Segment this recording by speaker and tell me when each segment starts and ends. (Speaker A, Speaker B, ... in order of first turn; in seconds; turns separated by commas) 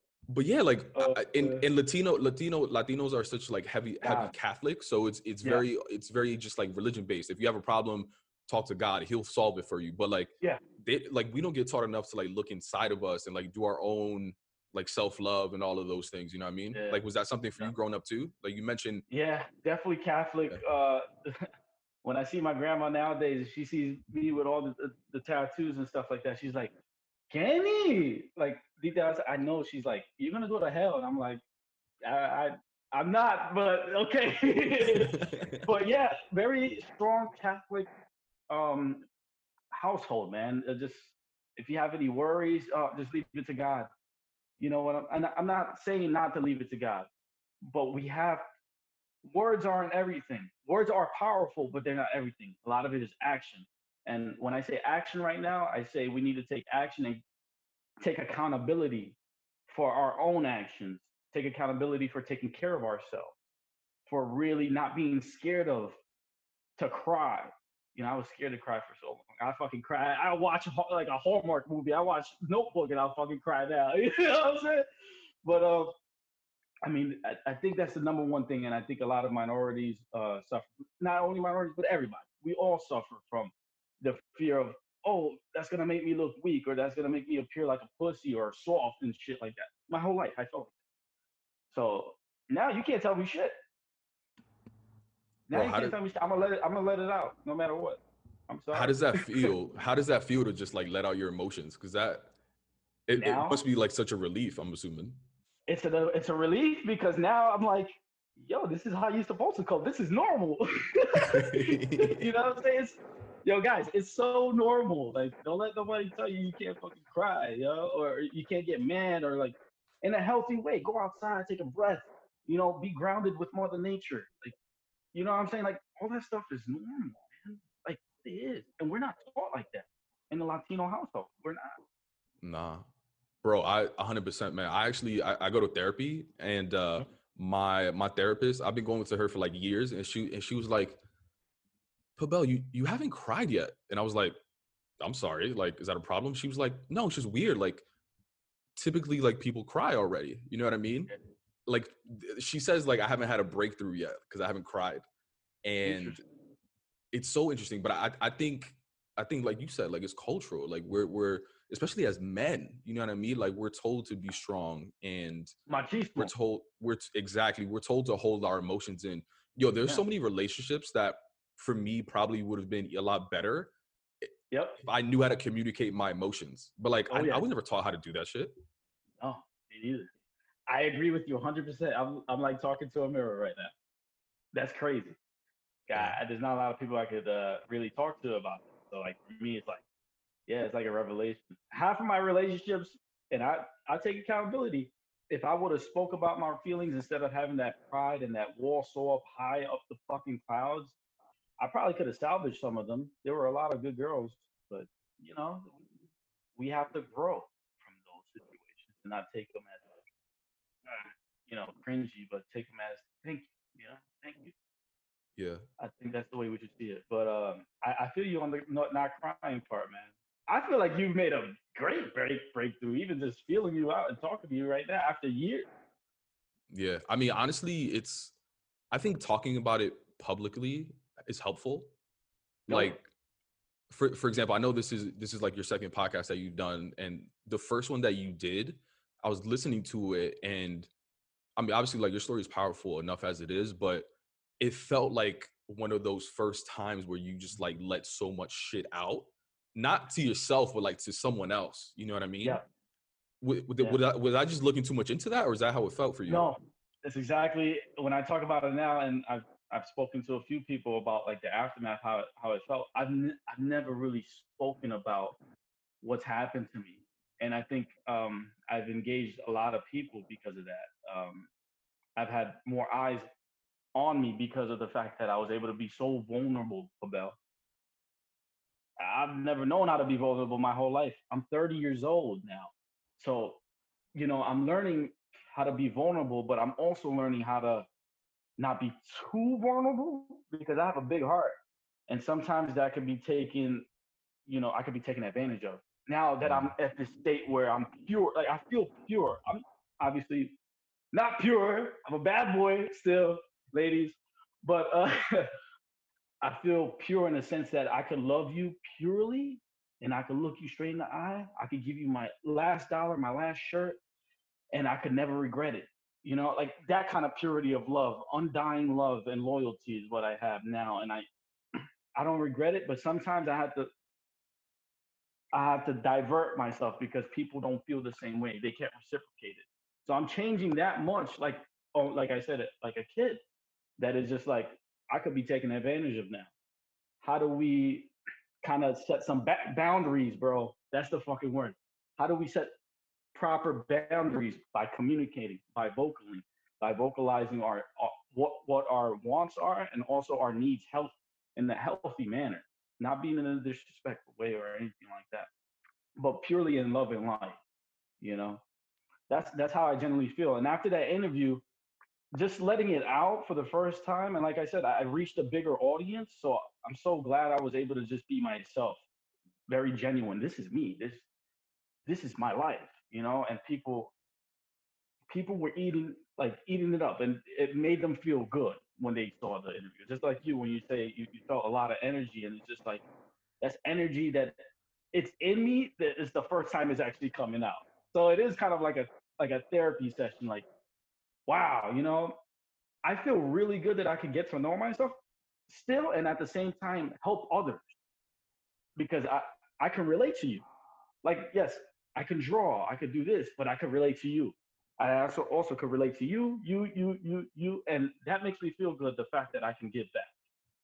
Speaker A: 0.3-19.0, Speaker B: 0.9-1.6, Speaker B: 4.0-4.3, Speaker B: 16.7-17.0, Speaker B: 19.1-21.5, Speaker B: 22.0-26.7, Speaker B: 27.3-31.4, Speaker B: 32.0-37.9, Speaker A: 35.0-35.7, Speaker B: 38.5-39.0, Speaker B: 39.7-43.9, Speaker B: 44.6-47.1, Speaker B: 47.6-48.4, Speaker B: 49.2-57.2, Speaker B: 58.0-59.2, Speaker B: 59.7-63.4, Speaker B: 64.1-66.0, Speaker B: 66.8-74.9, Speaker B: 75.4-75.9, Speaker B: 76.8-90.7, Speaker B: 91.7-93.5, Speaker B: 95.5-99.5, Speaker A: 95.5-96.0, Speaker A: 98.7-102.3, Speaker A: 103.1-105.2, Speaker B: 103.2-103.6, Speaker B: 105.7-124.5, Speaker A: 111.2-112.3, Speaker B: 125.1-131.7, Speaker A: 132.4-132.9, Speaker A: 133.4-141.0, Speaker A: 142.2-144.3, Speaker A: 145.0-147.8, Speaker A: 148.8-151.1, Speaker A: 151.7-155.0, Speaker A: 155.6-156.2, Speaker B: 155.8-156.2, Speaker A: 157.1-165.5, Speaker B: 165.7-166.3, Speaker A: 166.2-173.7, Speaker A: 174.2-178.5, Speaker B: 174.5-174.8, Speaker B: 177.1-177.4, Speaker B: 179.2-180.1, Speaker B: 180.7-183.7, Speaker B: 184.5-185.2, Speaker B: 185.9-189.8, Speaker A: 185.9-186.2, Speaker B: 190.5-200.9, Speaker B: 201.6-205.8, Speaker B: 206.6-210.0, Speaker B: 210.8-214.5, Speaker A: 215.4-215.6, Speaker B: 215.8-225.7, Speaker A: 226.7-228.3, Speaker A: 228.9-231.9, Speaker B: 232.7-232.9, Speaker A: 232.7-233.1, Speaker A: 233.9-240.9, Speaker A: 241.6-244.1, Speaker A: 244.6-252.6, Speaker A: 253.4-256.5, Speaker B: 256.3-265.4, Speaker B: 266.0-271.5, Speaker B: 272.1-273.3, Speaker B: 273.9-277.4, Speaker B: 279.0-283.6, Speaker B: 284.1-287.9, Speaker B: 288.6-291.5, Speaker B: 292.1-293.9, Speaker B: 294.4-300.6, Speaker A: 296.4-296.7, Speaker B: 301.1-305.5, Speaker B: 306.4-314.0, Speaker B: 314.7-323.9, Speaker B: 325.5-333.4, Speaker B: 334.0-336.5, Speaker B: 337.2-342.7, Speaker B: 343.3-355.5, Speaker B: 356.2-357.6, Speaker B: 358.2-358.6, Speaker B: 359.3-361.6, Speaker B: 362.3-369.0, Speaker B: 369.7-371.2, Speaker B: 372.1-374.1, Speaker B: 375.3-383.0, Speaker B: 383.6-384.6, Speaker B: 385.1-390.6, Speaker B: 391.5-392.4, Speaker B: 393.0-395.2, Speaker B: 395.7-397.9, Speaker B: 398.9-400.6, Speaker B: 401.2-410.3